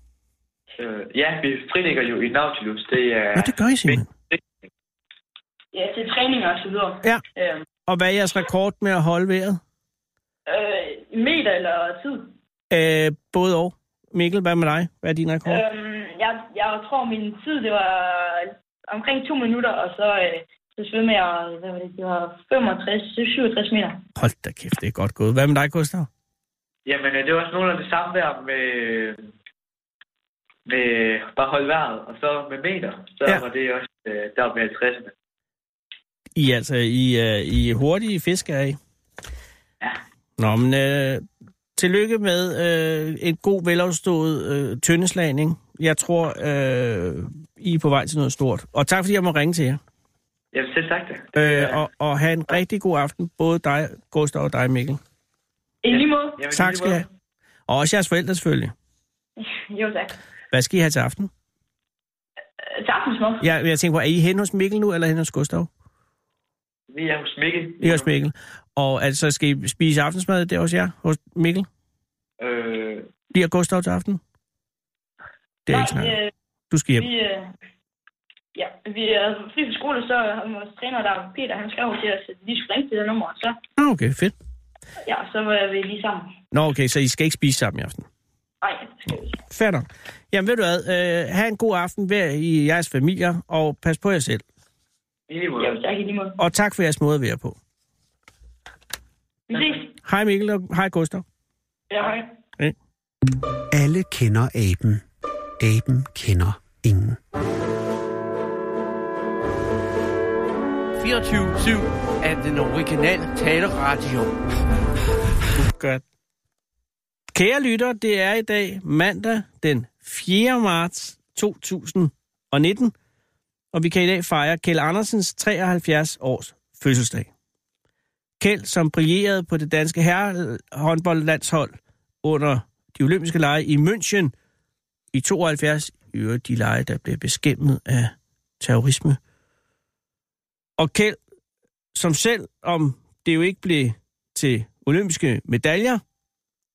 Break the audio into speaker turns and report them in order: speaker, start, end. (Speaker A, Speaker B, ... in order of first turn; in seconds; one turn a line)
Speaker A: 0.8-4.4
Speaker B: 3.4-4.1
Speaker C: 5.7-7.6
Speaker B: 7.9-9.6
Speaker C: 10.5-12.3
Speaker B: 12.7-15.6
Speaker C: 15.5-24.0
Speaker B: 24.2-26.1
Speaker A: 26.9-29.2
Speaker A: 30.7-35.1
Speaker B: 36.4-38.8
Speaker B: 40.4-41.2
Speaker B: 41.8-49.8
Speaker A: 50.5-51.8
Speaker B: 51.4-55.0
Speaker C: 55.8-56.4
Speaker A: 55.9-57.0
Speaker B: 56.5-57.1
Speaker B: 57.7-58.7
Speaker C: 59.4-60.2
Speaker B: 60.5-61.3
Speaker C: 62.7-63.5
Speaker B: 63.4-65.7
Speaker A: 66.9-68.1
Speaker B: 67.8-71.7
Speaker A: 72.4-73.1
Speaker B: 73.3-74.2
Speaker B: 75.7-76.2
Speaker C: 75.7-76.3
Speaker B: 76.7-77.1
Speaker C: 77.0-77.5
Speaker C: 78.5-83.6
Speaker B: 83.8-84.3
Speaker C: 85.0-86.3
Speaker B: 86.5-88.1
Speaker C: 88.6-89.4
Speaker B: 89.5-94.4
Speaker A: 95.3-95.7
Speaker C: 95.6-96.4
Speaker B: 96.4-97.6
Speaker C: 99.5-99.9
Speaker B: 100.0-101.2
Speaker C: 101.9-102.3
Speaker D: 103.7-105.0
Speaker D: 105.6-107.2
Speaker E: 111.0-114.3
Speaker B: 115.6-116.0
Speaker B: 117.3-122.9
Speaker B: 123.7-127.3
Speaker B: 128.4-134.3
Speaker B: 135.1-139.2
Speaker B: 140.8-141.2
Speaker B: 141.9-146.0